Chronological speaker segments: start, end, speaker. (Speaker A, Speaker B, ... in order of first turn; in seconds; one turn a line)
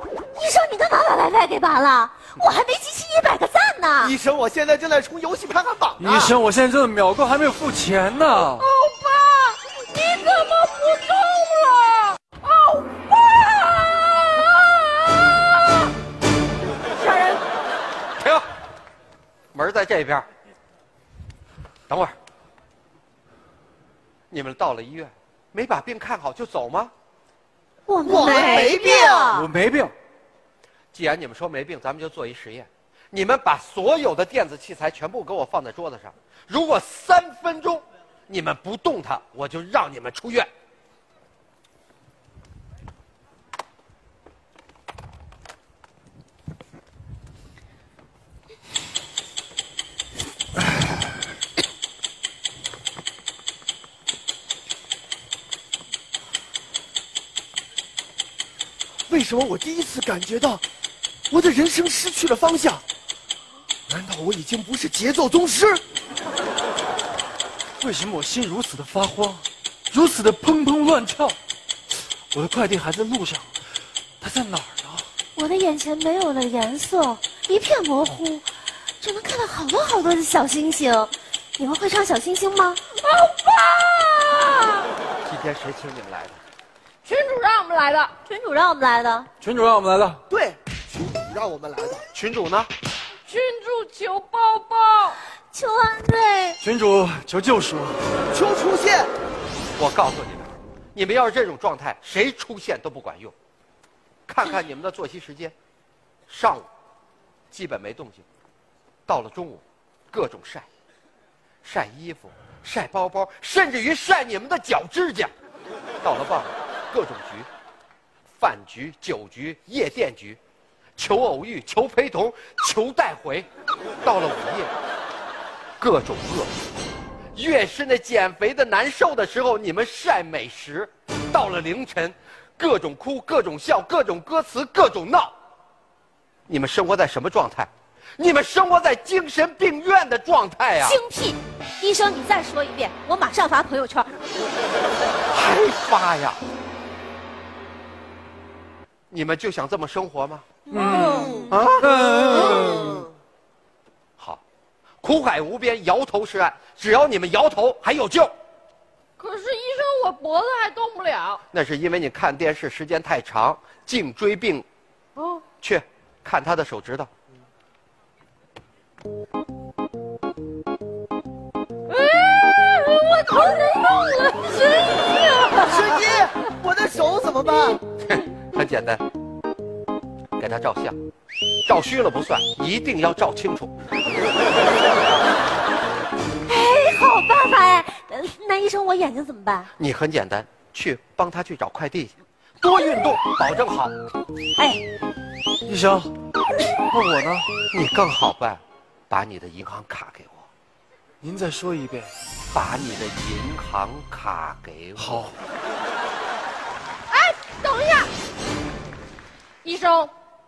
Speaker A: 0.3-4.1
Speaker B: 4.0-6.3
Speaker C: 6.0-8.7
Speaker D: 8.5-15.9
Speaker D: 16.9-17.4
Speaker E: 18.2-18.4
Speaker E: 19.5-20.3
Speaker E: 21.9-22.1
Speaker E: 24.3-26.9
Speaker A: 27.9-29.5
Speaker B: 28.0-29.3
Speaker C: 29.3-29.9
Speaker E: 30.9-40.5
Speaker B: 59.1-60.6
Speaker B: 61.3-62.8
Speaker B: 63.9-65.8
Speaker C: 67.8-71.4
Speaker C: 72.3-73.5
Speaker C: 74.2-75.1
Speaker A: 75.4-77.4
Speaker D: 76.9-78.4
Speaker D: 79.0-81.7
Speaker A: 79.3-80.2
Speaker A: 81.6-82.8
Speaker D: 82.4-84.9
Speaker E: 85.2-86.4
Speaker D: 87.0-88.3
Speaker A: 88.3-89.3
Speaker C: 89.4-90.2
Speaker B: 90.3-92.0
Speaker E: 92.1-92.7
Speaker D: 93.3-95.2
Speaker A: 95.5-96.6
Speaker C: 96.6-98.1
Speaker B: 98.3-99.1
Speaker E: 99.8-103.3
Speaker E: 104.3-105.5
Speaker E: 106.3-106.7
Speaker E: 107.5-108.2
Speaker E: 109.1-110.7
Speaker E: 111.6-115.3
Speaker E: 116.0-117.5
Speaker E: 118.3-120.4
Speaker E: 121.0-123.5
Speaker E: 124.0-124.7
Speaker E: 125.8-126.5
Speaker E: 127.3-135.3
Speaker E: 136.5-141.0
Speaker A: 140.9-144.2
Speaker E: 145.3-146.4
Speaker E: 149.1-150.4
Speaker D: 150.7-151.6
Speaker C: 150.7-153.1
Speaker E: 151.5-151.9
Speaker E: 155.0-158.3
Speaker D: 159.2-161.4
Speaker E: 161.5-164.7
Speaker D: 165.2-165.4
Speaker E: 165.6-167.1
Speaker D: 171.9-176.2
Speaker B: 175.6-177.8
Speaker E: 178.0-179.0
Speaker E: 180.4-181.0
Speaker E: 181.7-183.7
Speaker A: 186.4-189.7
Speaker E: 189.8-193.9
Speaker A: 194.6-194.8
Speaker C: 195.7-196.1
Speaker C: 196.9-197.5
Speaker E: 197.7-200.5
Speaker C: 201.2-202.1
Speaker E: 202.5-205.1
Speaker C: 205.0-205.3
Speaker D: 207.1-208.1
Speaker D: 209.6-210.1